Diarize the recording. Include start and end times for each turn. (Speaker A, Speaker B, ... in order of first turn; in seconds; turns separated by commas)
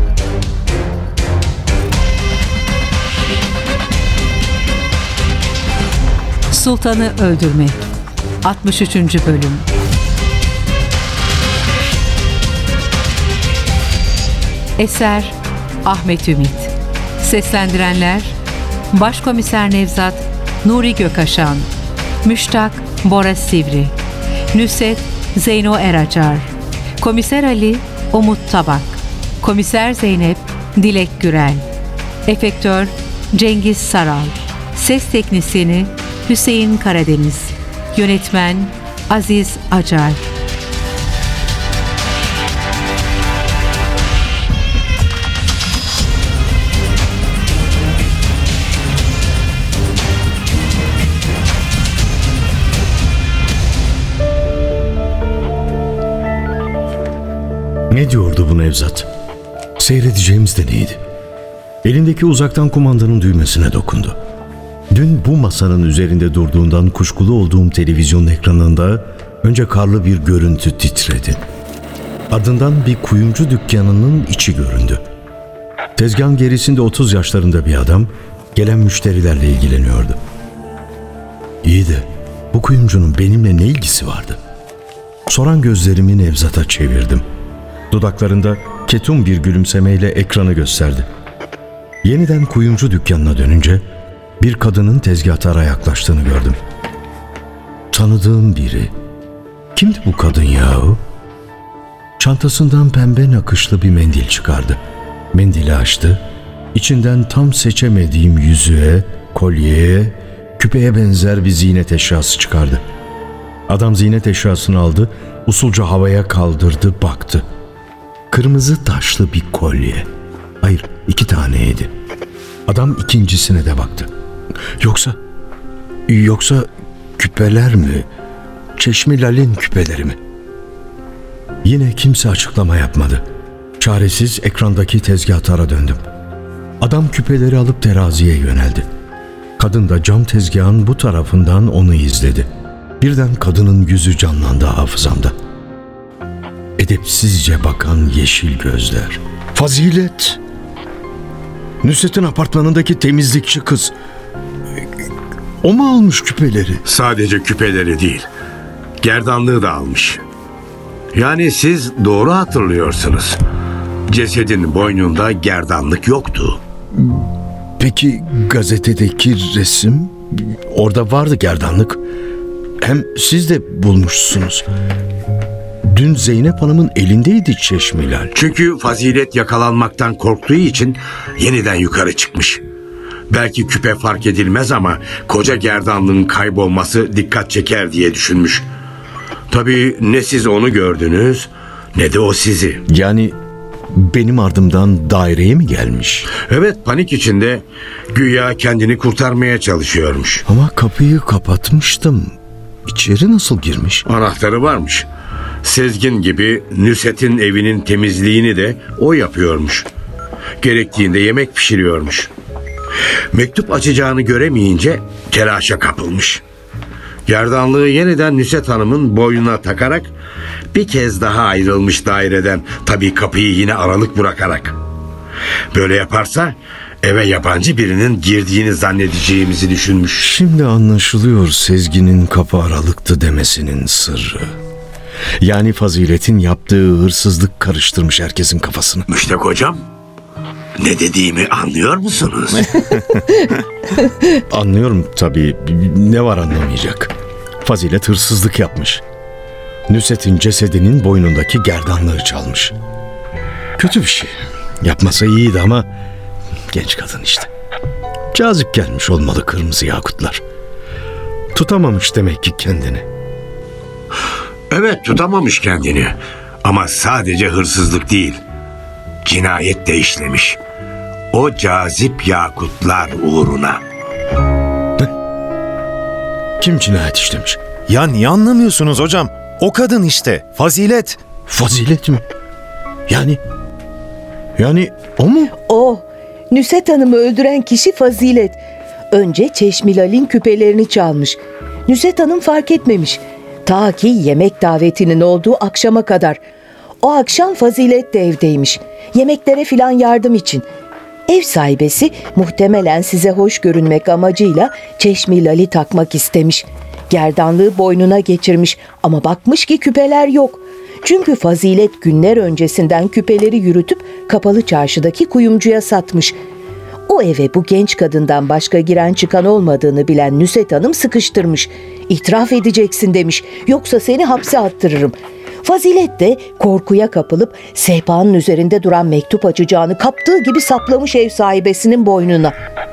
Speaker A: 6.5-7.9, Speaker A: 8.4-9.7, Speaker A: 14.8-18.4, Speaker A: 18.9-21.7, Speaker A: 22.2-23.9, Speaker A: 24.5-31.7, Speaker A: 32.3-40.2, Speaker B: 57.9-59.1, Speaker B: 59.8-61.0, Speaker B: 61.8-64.2, Speaker B: 64.9-71.4, Speaker B: 72.3-75.0, Speaker B: 76.0-80.2, Speaker B: 81.6-84.4, Speaker B: 85.3-87.2, Speaker B: 87.9-91.1, Speaker B: 92.0-93.8, Speaker B: 94.4-96.6, Speaker B: 97.9-98.9, Speaker B: 99.8-101.0, Speaker B: 102.2-104.8, Speaker B: 105.3-106.2, Speaker B: 106.7-112.8, Speaker B: 113.7-117.5, Speaker B: 118.3-120.1, Speaker B: 120.6-121.9, Speaker B: 122.7-124.1, Speaker B: 124.8-125.2, Speaker B: 126.1-128.1, Speaker B: 128.8-130.2, Speaker B: 131.6-133.2, Speaker B: 133.8-136.0, Speaker B: 136.8-138.9, Speaker B: 139.6-142.5, Speaker B: 143.0-145.3, Speaker B: 146.8-150.4, Speaker B: 151.8-153.9, Speaker B: 155.6-156.8, Speaker C: 156.9-158.3, Speaker C: 159.0-160.2, Speaker C: 161.1-163.4, Speaker C: 164.1-166.6, Speaker B: 166.9-172.0, Speaker B: 172.8-174.7, Speaker B: 175.8-178.3, Speaker C: 178.3-182.6, Speaker C: 183.3-188.7, Speaker C: 189.5-192.8, Speaker B: 192.9-193.4, Speaker B: 193.9-196.3, Speaker C: 196.3-200.4, Speaker B: 200.5-204.1, Speaker C: 204.1-205.1, Speaker C: 205.6-209.9, Speaker C: 210.6-212.3, Speaker C: 213.3-216.4, Speaker C: 217.3-220.1, Speaker C: 220.7-224.8, Speaker C: 225.7-230.3, Speaker B: 230.2-234.6, Speaker B: 235.4-239.1, Speaker C: 239.1-239.8, Speaker C: 240.8-242.9, Speaker B: 244.4-249.0, Speaker B: 249.9-252.8, Speaker B: 253.8-255.9, Speaker B: 256.7-257.5, Speaker B: 258.3-260.4, Speaker B: 261.5-263.1, Speaker C: 264.7-268.4, Speaker C: 269.2-270.6, Speaker C: 271.3-273.8, Speaker B: 276.6-277.6, Speaker D: 277.9-281.2, Speaker B: 281.5-282.2, Speaker B: 283.1-283.4, Speaker B: 284.6-285.6, Speaker E: 285.6-296.4, Speaker E: 297.0-300.7, Speaker E: 301.3-316.4, Speaker E: 317.1-332.6